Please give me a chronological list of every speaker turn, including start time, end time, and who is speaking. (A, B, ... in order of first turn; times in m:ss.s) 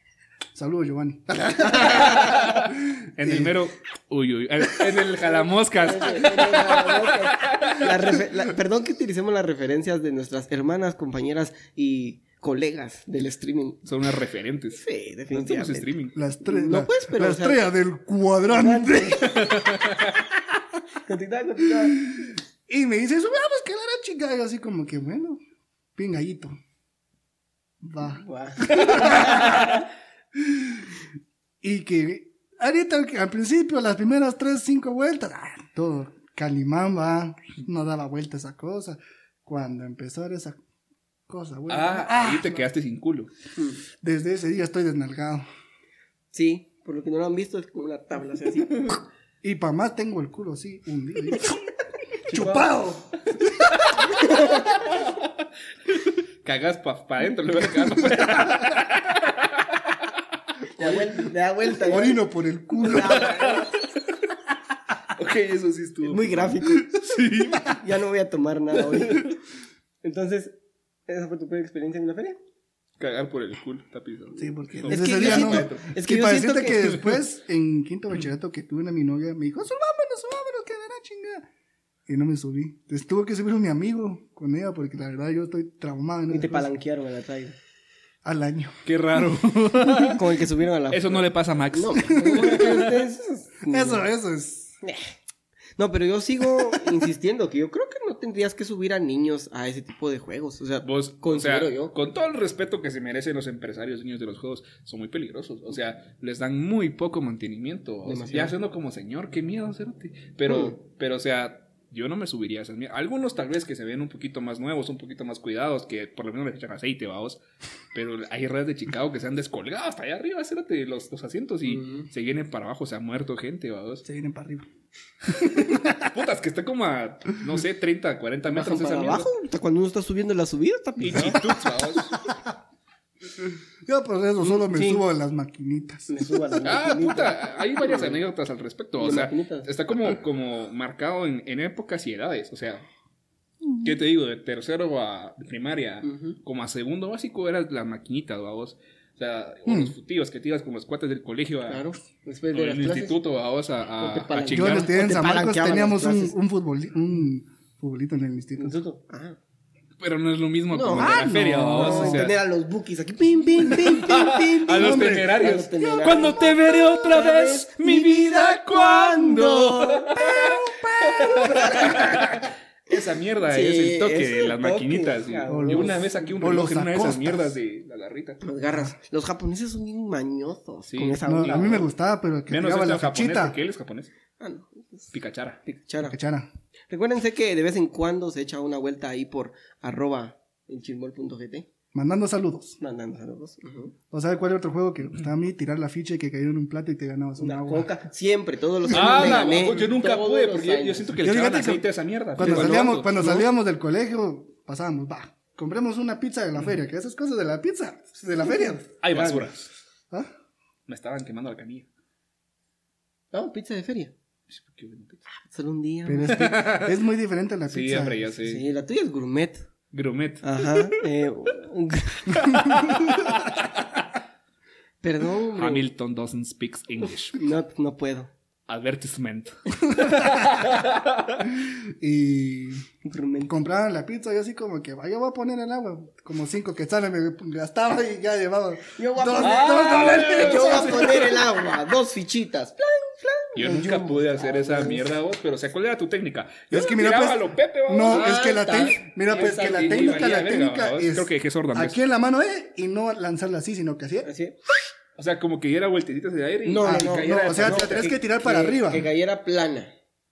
0:00.5-0:03.6 A
0:02.0-0:07.9 B
0:05.7-0:13.8 C
0:13.8-0:16.2 B
0:14.8-0:17.6 C
0:16.1-0:19.7 A
0:18.5-0:19.5 C
0:19.4-0:20.2 B
0:21.0-0:22.1 C
0:22.0-0:25.4 A
0:26.0-0:26.6 A
0:27.8-0:29.8 A
0:28.0-0:29.8 C
0:30.3-0:30.9 A
0:31.6-0:40.6 A
0:41.3-0:42.6 A
0:41.7-0:43.3 B
0:43.6-0:43.8 C
0:44.0-0:45.4 A
0:46.3-0:49.0 C
0:49.4-0:51.6 A
0:52.3-0:52.7 C
0:52.3-0:54.2 A
0:54.1-0:54.8 C
0:56.0-1:00.0 B
1:00.8-1:02.2 C
1:01.8-1:03.4 A
1:02.8-1:03.8 C
1:03.3-1:03.7 B
1:05.1-1:07.8 B
1:06.0-1:07.0 C
1:07.6-1:09.4 C
1:10.0-1:10.5 C
1:11.1-1:12.4 C
1:13.0-1:15.9 B
1:14.4-1:21.5 A
1:14.9-1:17.1 C
1:22.1-1:26.7 A
1:26.3-1:27.6 C
1:28.2-1:28.8 A
1:28.8-1:30.2 B
1:30.2-1:34.0 C
1:30.9-1:32.5 B
1:32.1-1:32.9 A
1:33.7-1:34.7 A
1:34.8-1:35.1 C
1:35.8-1:42.0 C
1:40.8-1:57.4 B
1:48.0-1:48.5 C
1:50.5-1:50.8 C
1:57.9-2:04.0 B
2:01.6-2:02.1 C
2:04.0-2:04.7 A
2:05.3-2:06.1 A
2:05.4-2:09.3 B
2:08.5-2:11.6 C
2:11.0-2:12.2 B
2:13.8-2:16.3 A
2:14.4-2:15.0 C
2:16.1-2:18.2 C
2:16.6-2:22.8 B
2:19.0-2:19.7 C
2:23.8-2:31.9 B
2:26.0-2:26.4 C
2:29.6-2:29.9 A
2:31.7-2:33.2 C
2:32.5-2:34.9 B
2:34.0-2:36.4 C
2:34.5-2:38.8 A
2:38.6-2:39.4 C
2:40.0-2:42.3 B
2:40.7-2:50.4 C
2:40.9-2:42.3 A
2:43.7-2:58.4 B
2:44.7-2:45.3 A
2:50.4-2:51.6 A
2:51.3-2:52.3 C
2:53.5-2:56.3 C
2:55.5-2:57.5 A
2:58.4-3:01.9 C
3:00.9-3:01.8 B
3:01.2-3:03.6 A
3:02.5-3:04.1 B
3:04.4-3:05.1 C
3:05.1-3:05.6 B
3:05.6-3:06.2 C
3:06.0-3:06.5 A
3:06.9-3:11.7 C
3:11.9-3:12.8 A
3:12.8-3:14.0 C
3:14.1-3:17.9 A
3:17.4-3:21.1 C
3:18.9-3:23.4 B
3:19.1-3:19.3 A
3:21.2-3:29.4 A
3:22.4-3:23.4 C
3:29.0-3:29.7 B
3:30.9-3:31.9 B
3:33.3-3:34.1 C
3:34.5-3:35.2 B
3:35.4-3:36.7 C
3:36.0-3:38.2 A
3:36.3-3:36.9 B
3:37.7-3:38.6 B
3:38.4-3:39.6 C
3:39.9-3:41.0 B
3:40.4-3:43.0 C
3:42.3-3:43.8 B
3:45.0-3:45.9 C
3:45.5-3:47.4 B
3:47.3-3:48.3 C
3:48.7-3:51.4 B
3:51.5-3:52.8 A
3:53.0-3:53.5 C
3:53.5-4:01.3 A
3:59.0-4:05.1 C
3:59.4-4:01.5 B
4:03.5-4:08.4 B
4:06.7-4:14.3 A
4:08.0-4:10.4 C
4:09.3-4:12.0 B
4:14.2-4:14.6 C
4:15.2-4:18.1 B
4:16.6-4:19.9 C
4:16.8-4:19.1 A